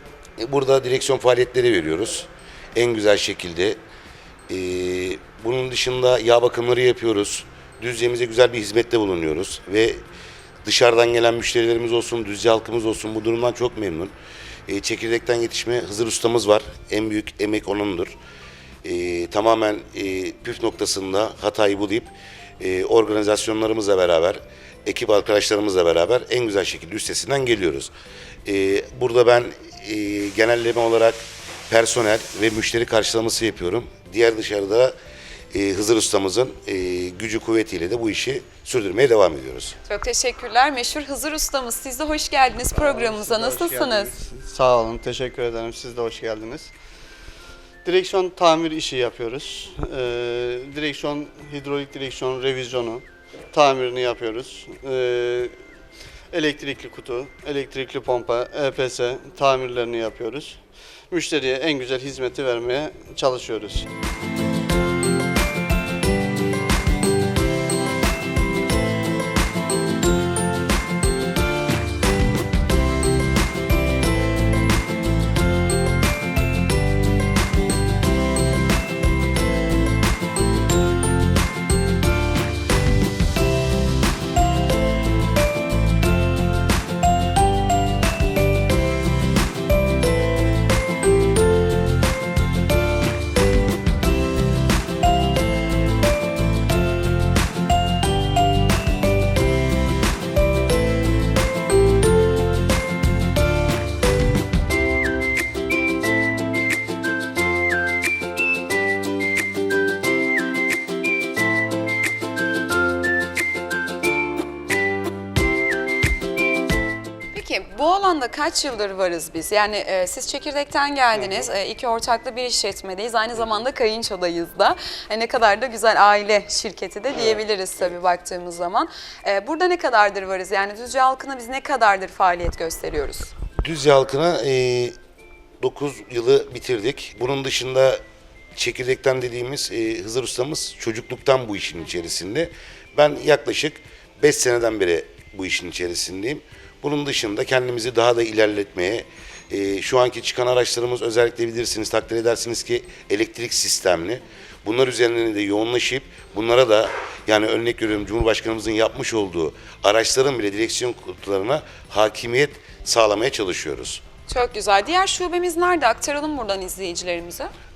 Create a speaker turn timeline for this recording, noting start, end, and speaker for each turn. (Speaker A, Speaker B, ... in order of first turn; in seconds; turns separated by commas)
Speaker A: 0.4-3.8, Speaker A: 4.5-10.0, Speaker A: 10.6-14.1, Speaker A: 14.7-18.1, Speaker A: 18.8-27.9, Speaker A: 28.4-34.9, Speaker A: 35.5-39.7, Speaker B: 39.9-44.1, Speaker C: 42.7-46.7, Speaker C: 47.8-55.5, Speaker C: 56.3-60.6, Speaker C: 61.1-63.9, Speaker B: 117.3-133.3, Speaker C: 121.1-121.5, Speaker C: 127.1-127.4, Speaker A: 133.6-134.9, Speaker A: 135.6-138.0, Speaker A: 138.6-164.0, Speaker B: 164.3-167.5